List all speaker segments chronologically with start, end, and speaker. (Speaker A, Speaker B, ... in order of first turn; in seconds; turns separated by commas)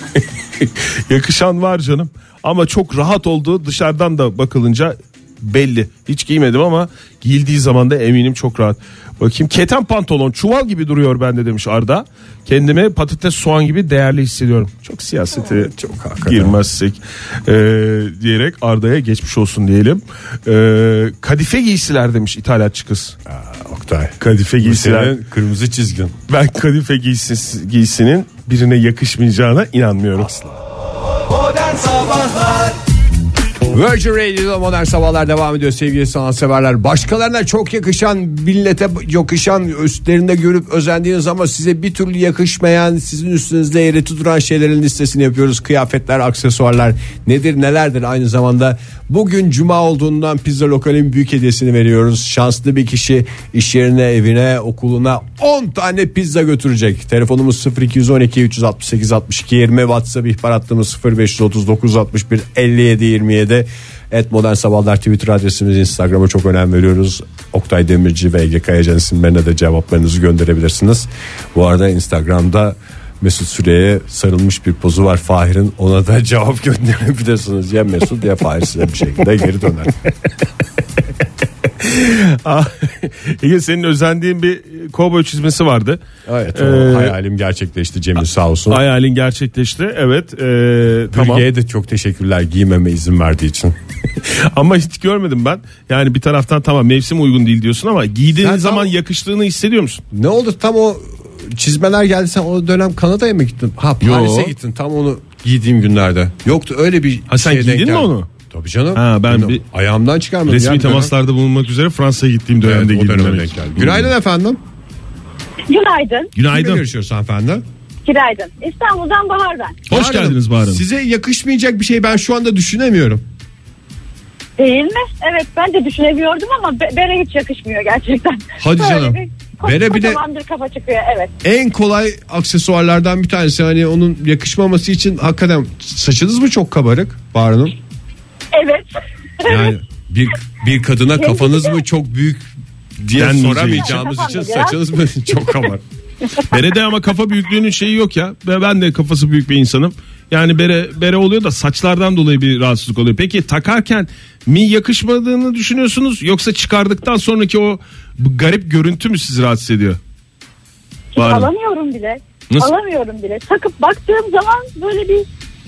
Speaker A: 0.6-15.7, Speaker B: 15.3-16.6, Speaker A: 16.2-23.1, Speaker B: 23.3-26.2, Speaker A: 24.2-25.2, Speaker A: 26.3-30.3, Speaker B: 30.1-30.6, Speaker B: 31.3-32.8, Speaker B: 33.7-80.0, Speaker A: 81.8-86.0, Speaker B: 86.2-88.8, Speaker A: 86.5-87.2, Speaker A: 88.7-91.5, Speaker B: 91.1-93.8, Speaker A: 94.2-100.0, Speaker B: 98.3-98.9, Speaker B: 100.1-111.1, Speaker A: 104.0-104.5, Speaker A: 107.3-108.3, Speaker A: 108.9-109.6, Speaker A: 110.5-114.1, Speaker B: 112.6-114.6, Speaker C: 115.7-116.3, Speaker A: 116.3-116.8, Speaker B: 116.5-117.6, Speaker C: 118.0-119.8, Speaker A: 119.9-120.8, Speaker B: 119.9-123.2, Speaker C: 124.6-131.3, Speaker B: 128.6-130.2, Speaker B: 131.4-137.8, Speaker C: 138.5-139.7, Speaker B: 139.4-145.8, Speaker C: 141.2-141.7, Speaker A: 143.1-144.1, Speaker C: 143.7-145.6, Speaker A: 146.5-160.0, Speaker C: 161.1-165.2, Speaker A: 161.2-161.5